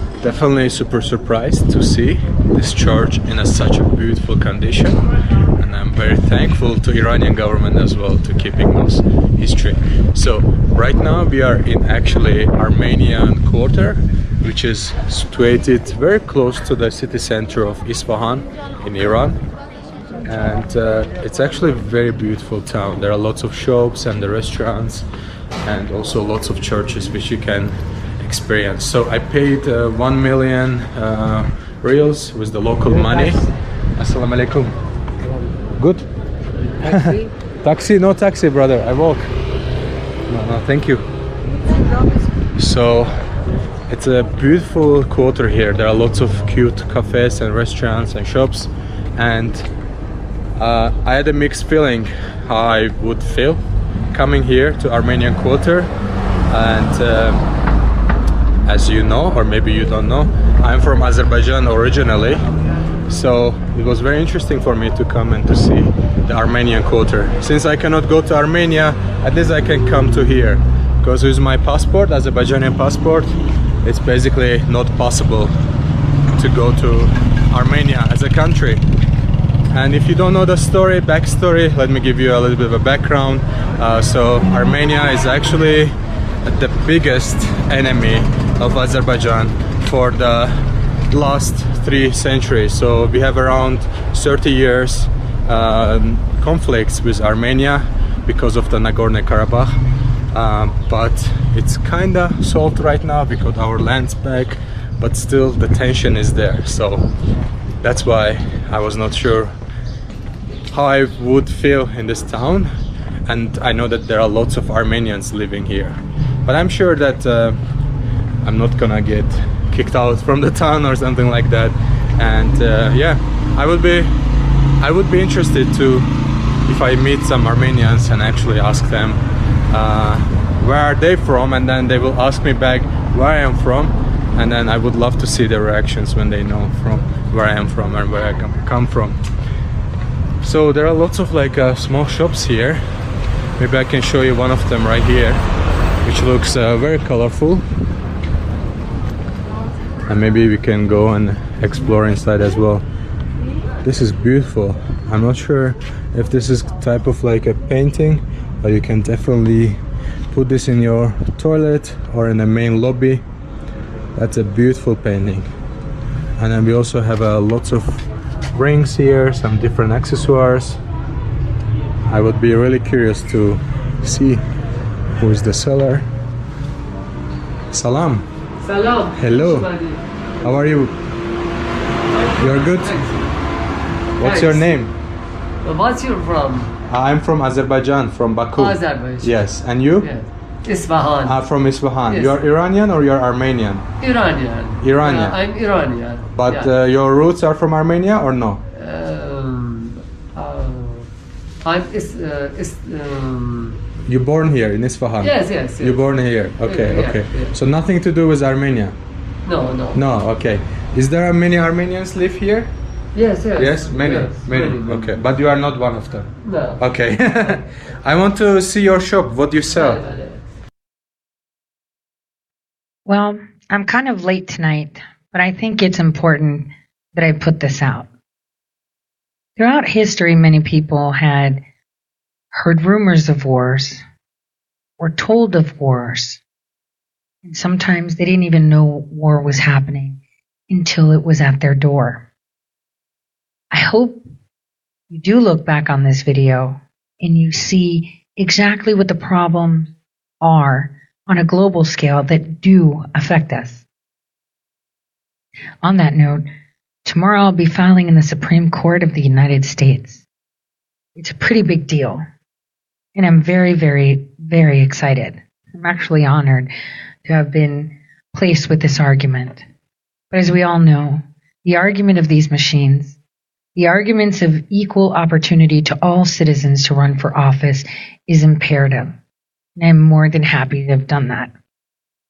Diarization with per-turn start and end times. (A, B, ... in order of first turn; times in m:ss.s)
0:00.2-0:05.0 A
0:05.6-0:19.4 A
0:20.2-0:25.1 A
0:25.6-0:34.8 A
0:35.8-0:36.1 A
0:36.8-0:39.3 A
0:40.3-0:41.1 A
0:42.6-0:43.2 A
0:43.9-0:49.7 A
0:50.6-0:55.9 A
0:56.5-0:57.5 A
0:58.7-1:02.4 A
1:03.1-1:15.5 A
1:16.3-1:18.8 A
1:19.7-1:39.8 A
1:40.3-1:47.1 A
1:47.8-1:49.6 A
1:50.7-1:52.7 A
1:53.3-1:57.6 A
1:58.4-2:04.2 A
2:04.8-2:06.1 A
2:06.7-2:19.2 A
2:20.4-2:23.0 A
2:23.6-2:25.4 A
2:26.0-2:27.6 A
2:30.1-2:32.8 A
2:33.8-2:39.8 A
2:40.3-2:43.2 A
2:44.2-2:45.5 A
2:46.4-2:50.8 A
2:52.1-2:54.4 A
2:55.2-2:56.1 A
2:57.7-2:58.3 A
2:58.6-3:00.0 B
2:59.2-2:59.7 A
3:00.4-3:00.9 A
3:02.1-3:03.2 B
3:02.4-3:03.1 A
3:04.2-3:04.9 A
3:04.2-3:04.8 B
3:05.6-3:06.7 B
3:06.9-3:10.2 A
3:08.6-3:11.5 B
3:11.2-3:13.9 A
3:12.1-3:12.5 B
3:14.0-3:16.7 B
3:14.8-3:15.6 A
3:16.3-3:18.6 A
3:18.7-3:21.1 B
3:21.6-3:23.8 B
3:24.1-3:29.0 A
3:25.2-3:27.6 B
3:29.5-3:30.0 B
3:29.9-3:32.7 A
3:33.2-3:35.2 B
3:33.5-3:40.1 A
3:36.4-3:36.8 B
3:39.7-3:40.4 B
3:43.1-3:48.1 C
3:49.6-3:51.6 C
3:52.5-3:54.0 C
3:55.0-3:56.4 C
3:57.4-4:02.3 C
4:03.7-4:04.3 C
4:05.1-4:13.8 C
4:15.8-4:16.5 C
4:17.1-4:20.2 C
4:21.2-4:22.2 C
4:23.2-4:26.7 C
4:27.2-4:29.6 C
4:30.3-4:33.2 C
4:33.8-4:39.2 C
4:39.8-4:41.5 C